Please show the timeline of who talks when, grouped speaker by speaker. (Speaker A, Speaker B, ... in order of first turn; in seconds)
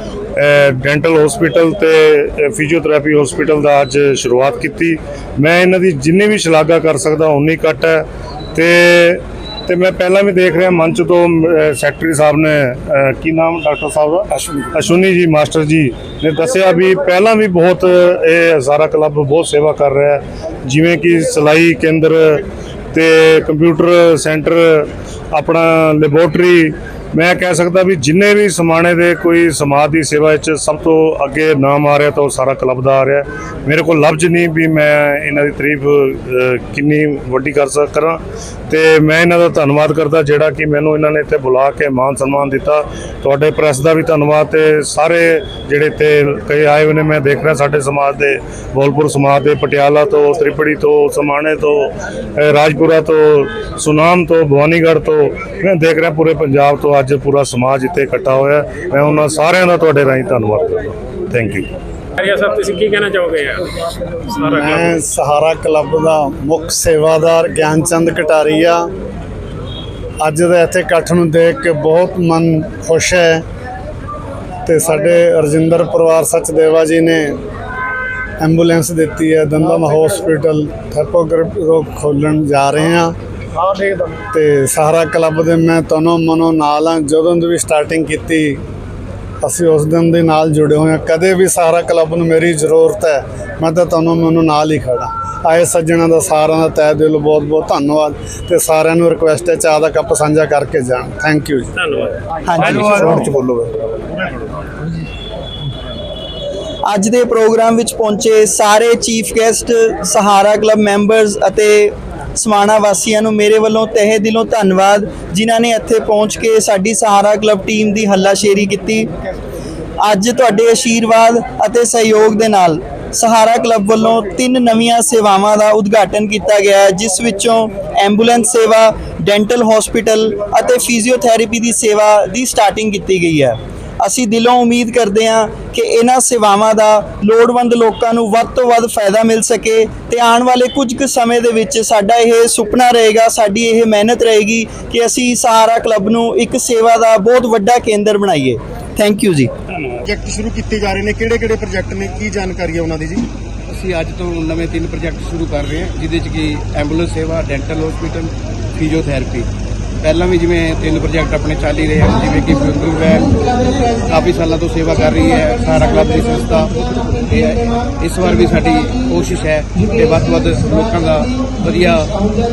Speaker A: 0.3-61.7
Speaker B: 62.2-65.0, 101.8-102.9
Speaker C: 64.5-68.9, 70.2-73.4, 74.7-77.4, 78.4-88.6, 89.4-101.7
Speaker D: 102.5-103.3, 106.8-119.1, 120.0-149.5
Speaker E: 150.0-153.3
Speaker F: 153.7-159.5, 160.0-163.5, 164.0-172.2